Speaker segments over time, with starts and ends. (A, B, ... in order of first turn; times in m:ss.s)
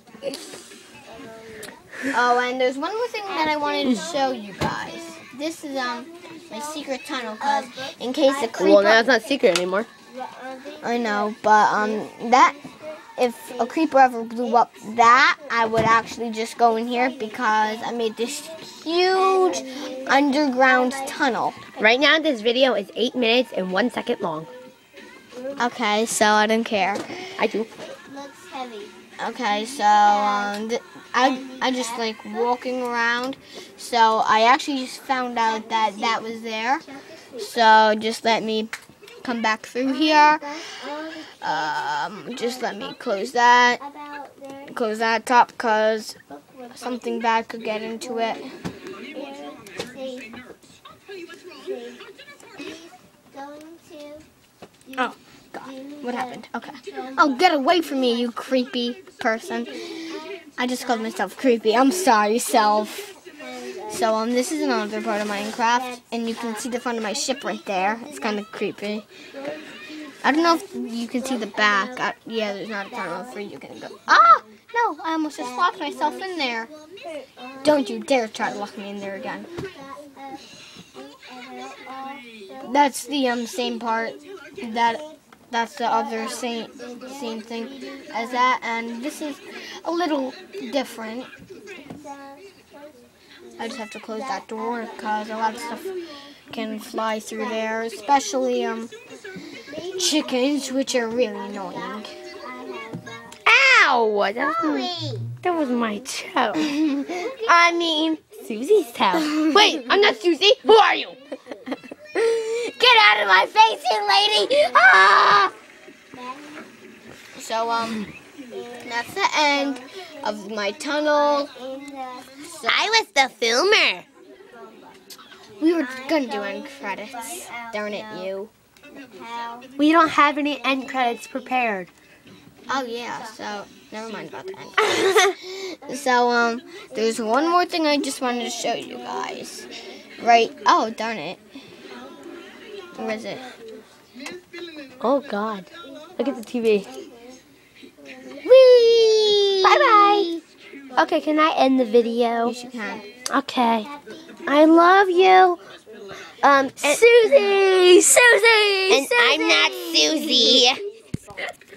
0:01.0-0:01.7 A
0:02.1-0:09.1 B
0:03.2-0:04.9 A
0:03.8-0:04.1 C
0:05.7-0:09.5 A
0:08.5-0:09.9 C
0:10.0-0:13.8 A
0:10.8-0:12.6 B
0:13.2-0:21.6 B
0:14.4-0:15.8 A
0:16.6-0:18.5 A
0:19.1-0:21.2 A
0:21.8-0:24.5 C
0:25.3-0:25.6 A
0:25.6-0:27.3 B
0:27.4-0:27.7 C
0:27.7-0:28.9 A
0:29.2-0:40.5 B
0:29.8-0:30.5 A
0:31.2-0:32.3 A
0:35.4-0:37.5 A
0:39.8-0:43.0 A
0:41.4-0:43.8 B
0:43.8-0:44.8 A
0:44.7-0:46.2 B
0:46.3-0:47.2 A
0:46.7-0:48.5 B
0:48.1-0:48.4 A
0:49.1-0:50.3 A
0:51.5-0:52.0 A
0:52.6-0:54.2 A
0:54.9-0:58.7 A
0:55.0-1:00.0 B
0:59.5-1:04.2 A
1:00.6-1:03.1 B
1:03.9-1:09.1 B
1:05.4-1:06.6 A
1:07.3-1:08.4 A
1:09.3-1:12.1 A
1:10.2-1:16.7 B
1:12.8-1:13.4 A
1:15.4-1:22.9 A
1:17.6-1:19.5 B
1:22.6-1:31.3 B
1:24.6-1:25.2 A
1:25.9-1:28.5 A
1:31.9-1:35.9 A
1:33.6-1:35.9 B
1:36.5-1:38.9 B
1:37.4-1:37.8 A
1:39.7-1:43.4 A
1:39.9-1:42.1 B
1:43.4-1:51.2 C
1:44.4-1:45.4 A
1:47.0-1:50.2 A
1:49.3-1:49.6 B
1:50.9-1:51.8 A
1:52.1-1:54.8 B
1:54.4-1:55.5 C
1:54.4-1:54.9 A
1:56.1-1:56.7 A
1:57.3-1:58.0 B
1:58.5-2:03.0 A
1:58.8-2:01.5 B
2:02.6-2:04.0 C
2:04.5-2:05.0 A
2:05.6-2:08.5 B
2:05.8-2:08.3 A
2:08.9-2:09.7 A
2:09.8-2:11.9 C
2:10.7-2:11.7 A
2:12.7-2:19.7 B
2:14.8-2:15.3 C
2:16.9-2:20.5 A
2:20.2-2:21.4 B
2:21.9-2:22.3 A
2:22.9-2:23.7 A
2:22.9-2:23.5 B
2:25.0-2:26.9 C
2:25.9-2:27.4 A
2:28.0-2:28.4 A
2:28.4-2:30.3 C
2:29.1-2:31.3 A
2:31.0-2:32.5 C
2:31.9-2:33.2 A
2:32.4-2:33.0 B
2:33.3-2:33.9 C
2:33.7-2:36.1 A
2:34.4-2:35.6 C
2:36.4-2:37.6 C
2:36.8-2:40.7 B
2:38.9-2:40.8 C
2:39.7-2:40.7 A